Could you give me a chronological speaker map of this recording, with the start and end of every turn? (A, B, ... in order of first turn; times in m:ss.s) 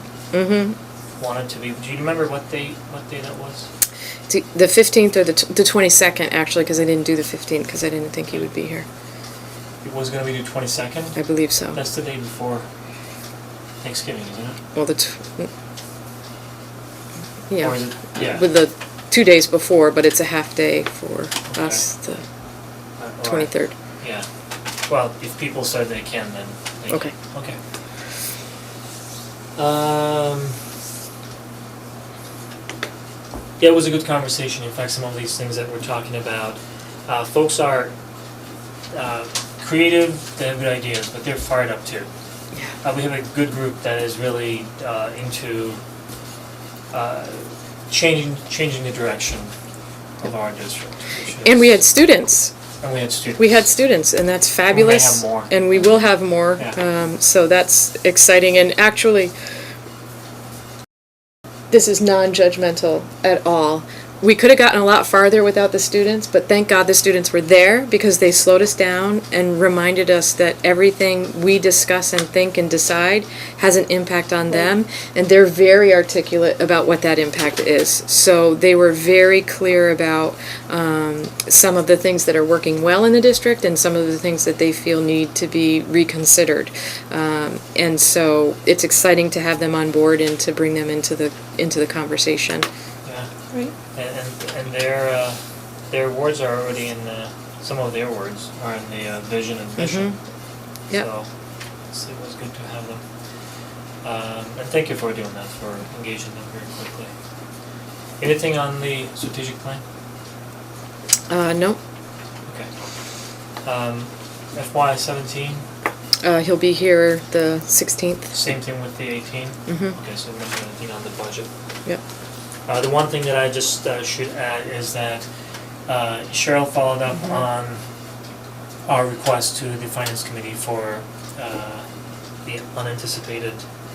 0:00.3-0:00.8 A
0:01.2-0:03.7 B
0:04.3-0:08.9 A
0:09.8-0:11.2 B
0:11.2-0:11.8 A
0:11.7-0:12.7 B
0:13.8-0:14.6 B
0:14.8-0:15.5 A
0:17.5-0:22.2 A
0:17.6-0:18.5 B
0:21.5-0:21.9 B
0:23.0-0:24.3 B
0:23.2-0:23.7 A
0:24.9-0:27.6 B
0:26.9-0:27.2 A
0:29.6-0:30.6 B
0:33.6-0:37.9 B
0:38.9-0:42.1 B
0:42.8-0:45.8 B
0:46.9-0:49.5 B
0:50.2-0:51.8 B
0:51.4-0:52.5 A
0:52.8-0:53.6 B
0:53.4-0:59.3 A
0:54.7-0:55.6 B
1:01.7-1:32.7 A
1:34.0-1:35.4 B
1:35.9-1:40.1 B
1:39.8-1:40.2 A
1:40.9-1:41.3 B
1:41.9-1:43.0 B
1:44.0-1:47.1 B
1:48.2-1:49.8 B
1:51.3-1:51.8 A
1:53.6-1:55.6 B
1:56.2-1:58.4 A
1:58.3-2:01.5 B
1:59.7-2:00.0 A
2:02.7-2:05.3 B
2:05.9-2:07.8 B
2:08.9-2:11.9 B
2:12.4-2:13.6 B